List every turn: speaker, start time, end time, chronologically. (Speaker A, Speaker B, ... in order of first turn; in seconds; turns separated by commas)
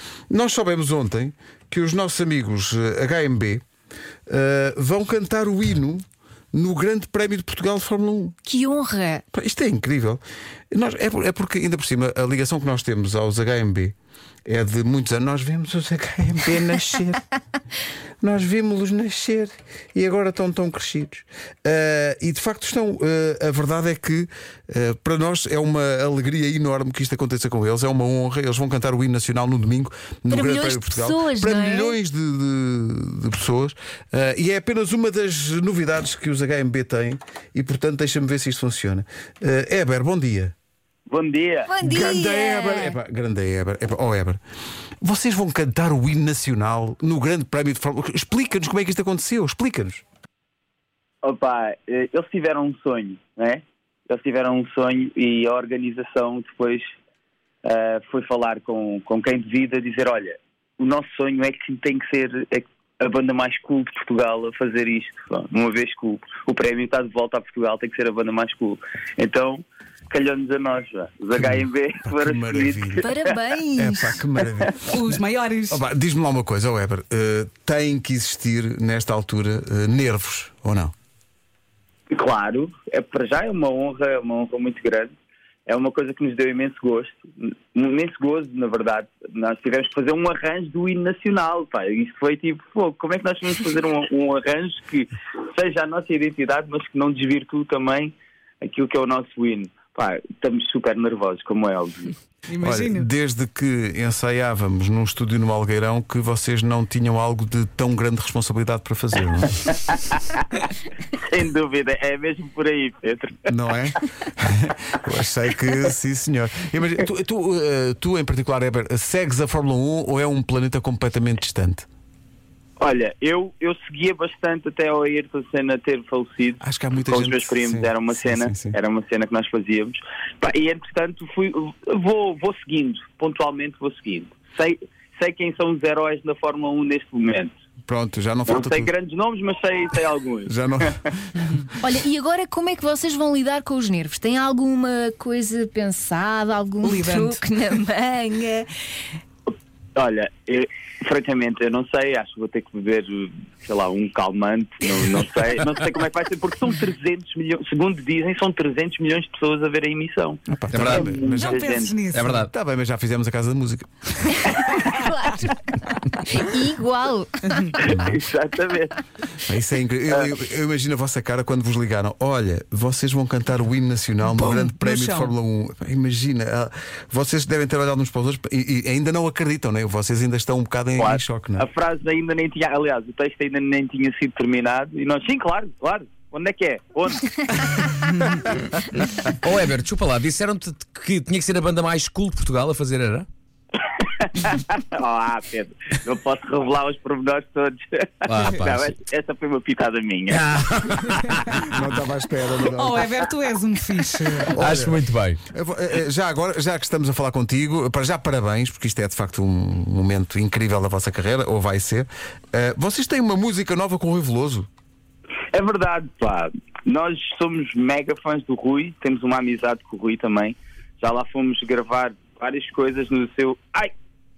Speaker A: 0.3-3.6, Speaker A: 4.3-8.4, Speaker B: 8.4-9.2, Speaker A: 9.3-13.9, Speaker A: 14.4-17.3, Speaker A: 18.2-40.5, Speaker B: 30.3-31.9, Speaker C: 41.1-41.7, Speaker B: 41.7-42.9, Speaker A: 41.8-44.4, Speaker A: 45.0-50.0, Speaker C: 51.2-56.9, Speaker C: 57.6-73.3, Speaker A: 71.4-73.1, Speaker B: 73.0-74.2, Speaker A: 73.8-75.0, Speaker D: 74.8-75.8, Speaker A: 75.7-80.9, Speaker C: 82.1-85.1, Speaker C: 85.7-102.2, Speaker D: 102.5-103.1, Speaker A: 102.6-109.6, Speaker C: 109.8-113.5, Speaker A: 113.5-121.9, Speaker C: 122.8-137.5, Speaker A: 126.6-128.7, Speaker A: 137.8-138.9, Speaker C: 138.5-140.5, Speaker A: 140.4-141.7, Speaker B: 141.8-148.7, Speaker D: 146.9-147.4, Speaker C: 149.9-162.0, Speaker A: 160.5-161.6, Speaker E: 160.7-161.2, Speaker D: 161.2-162.4, Speaker E: 162.1-162.5, Speaker A: 162.2-164.5, Speaker B: 164.3-167.8, Speaker A: 167.8-168.2, Speaker C: 167.8-169.0, Speaker A: 169.4-181.7, Speaker D: 174.4-175.3, Speaker C: 181.0-187.8, Speaker E: 189.0-193.3, Speaker C: 193.9-200.4, Speaker E: 198.2-198.9, Speaker E: 200.3-202.0, Speaker A: 201.6-203.1, Speaker D: 202.6-204.6, Speaker A: 204.5-205.0, Speaker E: 204.5-205.4, Speaker A: 205.5-214.7, Speaker C: 215.5-223.9